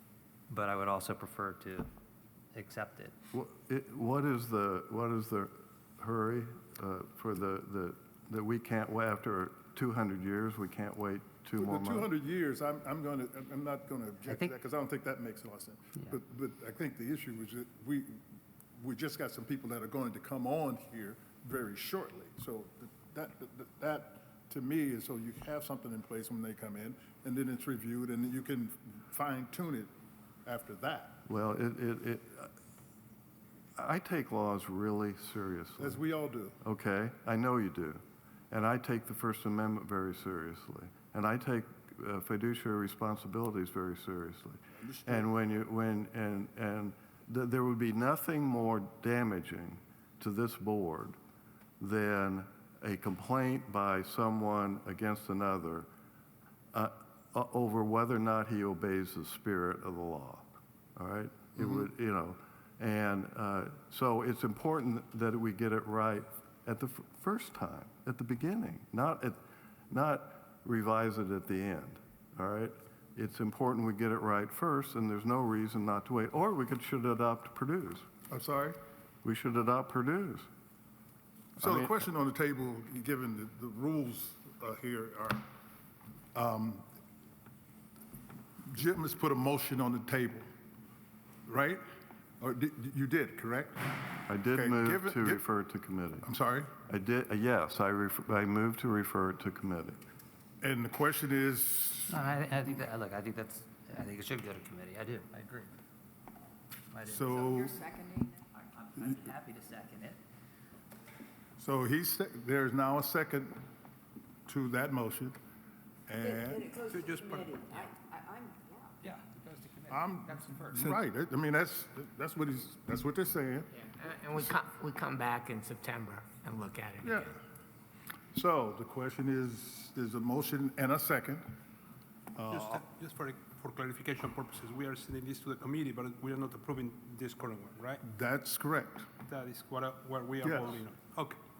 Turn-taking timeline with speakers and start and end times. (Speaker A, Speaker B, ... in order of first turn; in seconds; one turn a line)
Speaker A: 0.5-1.9
Speaker A: 2.5-3.1
Speaker B: 3.3-12.1
Speaker C: 11.6-18.2
Speaker A: 14.3-14.5
Speaker C: 18.8-29.9
Speaker C: 30.4-31.2
Speaker B: 31.2-32.5
Speaker B: 33.8-36.0
Speaker C: 35.8-36.6
Speaker B: 36.6-51.2
Speaker C: 44.7-45.3
Speaker B: 51.8-55.9
Speaker B: 56.7-69.4
Speaker B: 69.9-78.1
Speaker C: 78.3-78.8
Speaker B: 79.2-80.5
Speaker B: 81.6-82.0
Speaker C: 81.6-85.5
Speaker C: 86.3-86.8
Speaker C: 88.7-90.4
Speaker C: 91.5-91.8
Speaker C: 92.4-95.4
Speaker B: 94.3-96.3
Speaker C: 96.2-96.7
Speaker B: 96.8-100.0
Speaker C: 100.6-102.2
Speaker A: 102.1-105.7
Speaker A: 106.9-107.5
Speaker C: 107.0-107.8
Speaker D: 107.5-108.4
Speaker A: 108.5-110.2
Speaker C: 111.6-113.6
Speaker C: 114.5-115.4
Speaker C: 116.1-116.7
Speaker D: 116.2-119.0
Speaker E: 116.9-117.6
Speaker A: 119.0-121.0
Speaker C: 119.9-124.6
Speaker F: 123.9-127.3
Speaker C: 127.0-127.4
Speaker C: 128.3-131.4
Speaker C: 132.3-132.8
Speaker E: 132.5-138.0
Speaker C: 138.0-139.1
Speaker E: 139.3-141.4
Speaker C: 140.4-140.8